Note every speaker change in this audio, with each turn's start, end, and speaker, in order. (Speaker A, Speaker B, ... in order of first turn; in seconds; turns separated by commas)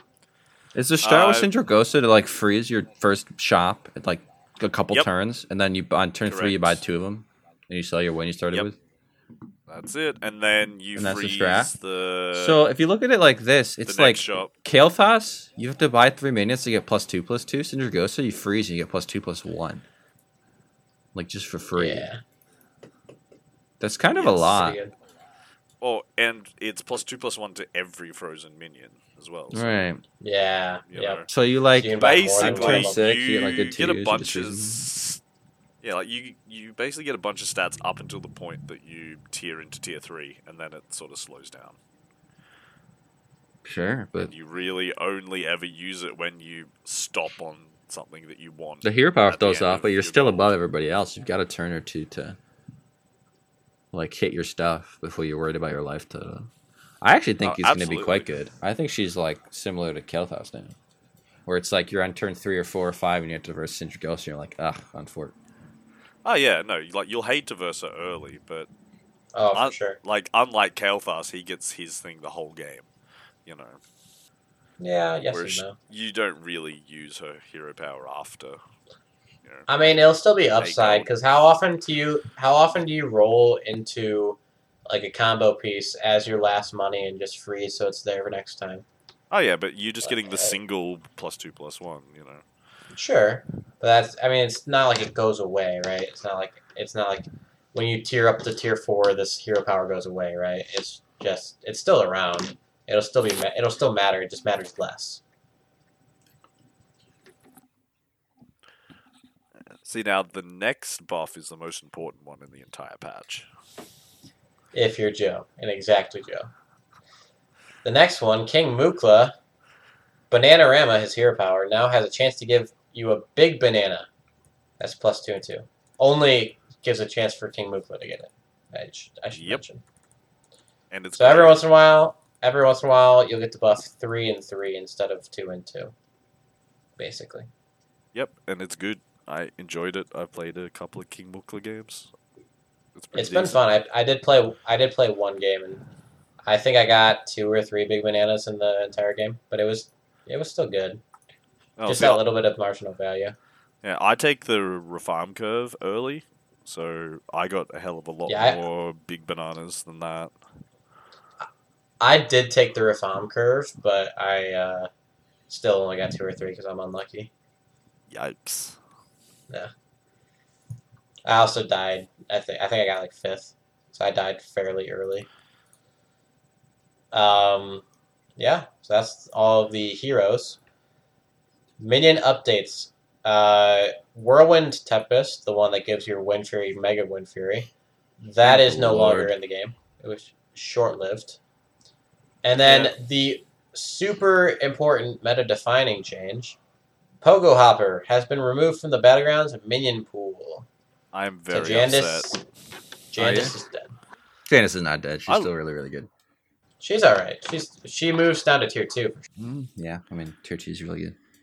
Speaker A: 0.7-8.8, Speaker B: 1.0-1.5, Speaker B: 6.3-6.8, Speaker B: 9.7-12.6, Speaker A: 10.9-11.7, Speaker A: 12.3-19.8, Speaker B: 13.8-14.5, Speaker A: 21.1-22.1, Speaker C: 21.8-22.2, Speaker A: 23.8-24.8, Speaker C: 24.1-24.9, Speaker B: 25.8-29.7, Speaker A: 29.5-30.0, Speaker C: 30.2-31.2, Speaker B: 30.9-31.3, Speaker A: 31.3-34.9, Speaker C: 31.8-33.0, Speaker B: 31.9-35.2, Speaker B: 35.8-41.8, Speaker A: 43.6-44.3, Speaker B: 44.3-50.5, Speaker A: 48.8-52.4, Speaker A: 53.9-56.5, Speaker A: 57.0-60.8, Speaker B: 57.4-58.3, Speaker A: 61.5-65.3, Speaker B: 66.2-68.7, Speaker C: 69.3-70.0, Speaker B: 69.5-72.9, Speaker B: 73.5-73.8, Speaker C: 74.8-75.8, Speaker B: 75.3-78.6, Speaker C: 79.7-88.8, Speaker B: 80.6-81.1, Speaker B: 89.3-92.4, Speaker C: 90.0-90.5, Speaker C: 92.9-105.2, Speaker B: 109.8-113.5, Speaker C: 114.7-116.5, Speaker C: 117.8-119.3, Speaker C: 120.3-124.1, Speaker C: 124.8-129.8, Speaker B: 129.3-129.6, Speaker B: 130.9-131.6, Speaker C: 131.2-135.9, Speaker C: 137.0-137.5, Speaker B: 138.1-142.1, Speaker B: 142.9-143.6, Speaker C: 143.1-145.8, Speaker C: 146.4-151.0, Speaker B: 151.8-152.2, Speaker C: 151.9-153.3, Speaker B: 153.8-160.3, Speaker C: 158.3-158.6, Speaker C: 162.0-164.9, Speaker C: 165.5-167.3, Speaker B: 168.1-168.8, Speaker C: 171.2-175.3, Speaker C: 177.1-177.8, Speaker C: 178.4-180.6, Speaker C: 181.8-187.7, Speaker C: 188.2-191.4, Speaker A: 188.4-189.3, Speaker C: 192.4-196.6, Speaker B: 192.6-192.9, Speaker C: 197.2-200.7, Speaker B: 201.1-202.3, Speaker C: 201.5-202.4, Speaker C: 203.1-204.0, Speaker A: 203.2-203.5, Speaker A: 204.5-206.1, Speaker B: 205.3-205.5, Speaker C: 206.8-209.3, Speaker A: 209.3-211.2